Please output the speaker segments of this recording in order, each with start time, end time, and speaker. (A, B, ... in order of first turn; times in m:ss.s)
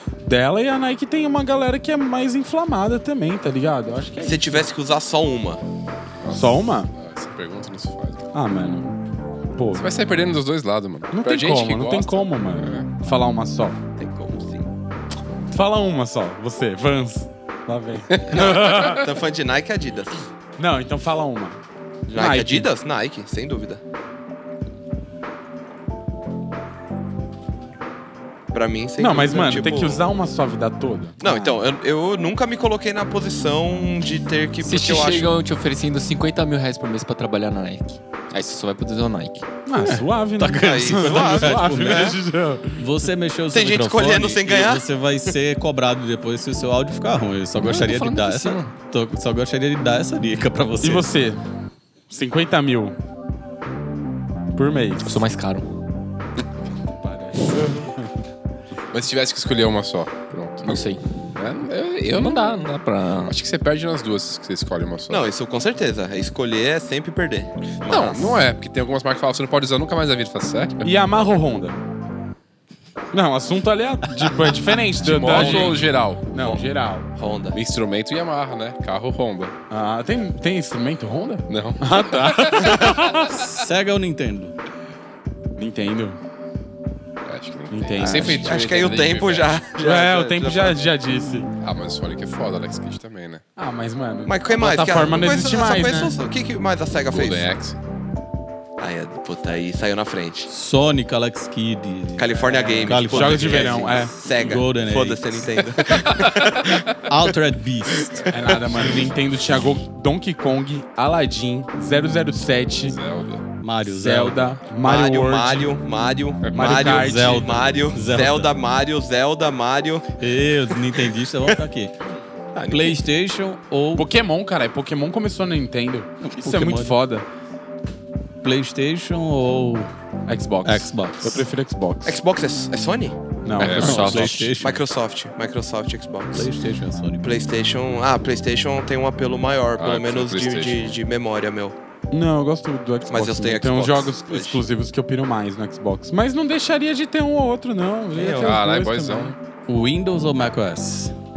0:00.2-0:04.7 A
0:04.2-0:05.6 B
0:06.2-0:08.3 C
0:06.3-0:06.9 A
0:08.3-0:09.0 A
0:09.6-0:09.9 A
0:09.8-0:12.9 C
0:11.1-0:13.8 A
0:14.0-0:14.7 B
0:15.5-0:19.1 A
0:18.1-0:19.0 C
0:18.3-0:20.2 B
0:20.6-0:21.6 A
0:22.1-0:23.8 B
0:22.2-0:22.7 A
0:28.5-0:30.1 B
0:29.0-0:31.2 A
0:31.2-0:35.3 B
0:34.6-0:39.5 D
0:39.7-0:42.8 A
0:39.8-0:42.2 E
0:40.6-0:42.2 B
0:42.8-0:51.1 E
0:43.5-0:44.8 B
0:47.6-0:48.7 D
0:50.8-0:51.4 A
0:52.1-0:53.0 A
0:54.6-0:55.2 A
0:55.0-0:55.7 D
0:56.9-0:58.1 A
0:58.9-1:02.6 C
1:00.6-1:01.0 D
1:02.1-1:03.4 D
1:03.3-1:05.3 C
1:05.1-1:08.4 B
1:07.8-1:10.9 C
1:10.8-1:11.8 A
1:13.1-1:17.1 A
1:15.0-1:16.2 C
1:15.3-1:15.8 B
1:16.4-1:16.6 B
1:17.2-1:17.6 B
1:17.5-1:19.5 C
1:19.7-1:23.4 A
1:21.5-1:23.3 C
1:23.3-1:24.5 E
1:25.6-1:26.2 A
1:27.2-1:29.6 C
1:27.7-1:28.4 A
1:28.0-1:30.8 B
1:29.8-1:31.5 A
1:31.6-1:33.4 C
1:33.6-1:36.2 A
1:34.3-1:37.5 B
1:37.1-1:37.8 C
1:38.8-1:40.5 B
1:40.5-1:45.6 E
1:42.2-1:46.8 B
1:42.3-1:44.1 A
1:46.1-1:46.7 C
1:47.1-1:48.2 E
1:47.9-1:48.3 B
1:48.3-1:53.0 A
1:52.9-1:53.4 C
1:53.6-1:54.6 E
1:53.8-1:55.7 A
1:54.8-2:00.1 B
1:56.5-1:57.6 A
1:56.6-1:58.6 E
2:00.2-2:01.9 E
2:02.6-2:03.0 B
2:02.7-2:04.1 E
2:04.0-2:07.2 A
2:06.2-2:07.0 E
2:08.4-2:09.9 E
2:10.3-2:12.2 A
2:10.6-2:11.5 E
2:12.1-2:13.2 B
2:13.4-2:14.1 A
2:13.6-2:14.5 C
2:13.6-2:14.6 D
2:13.8-2:14.8 E
2:14.6-2:16.5 B
2:16.3-2:17.3 E
2:17.2-2:21.8 B
2:19.8-2:21.0 C
2:22.1-2:29.4 A
2:23.1-2:24.6 B
2:28.2-2:28.6 B
2:28.4-2:29.3 C
2:29.7-2:31.1 E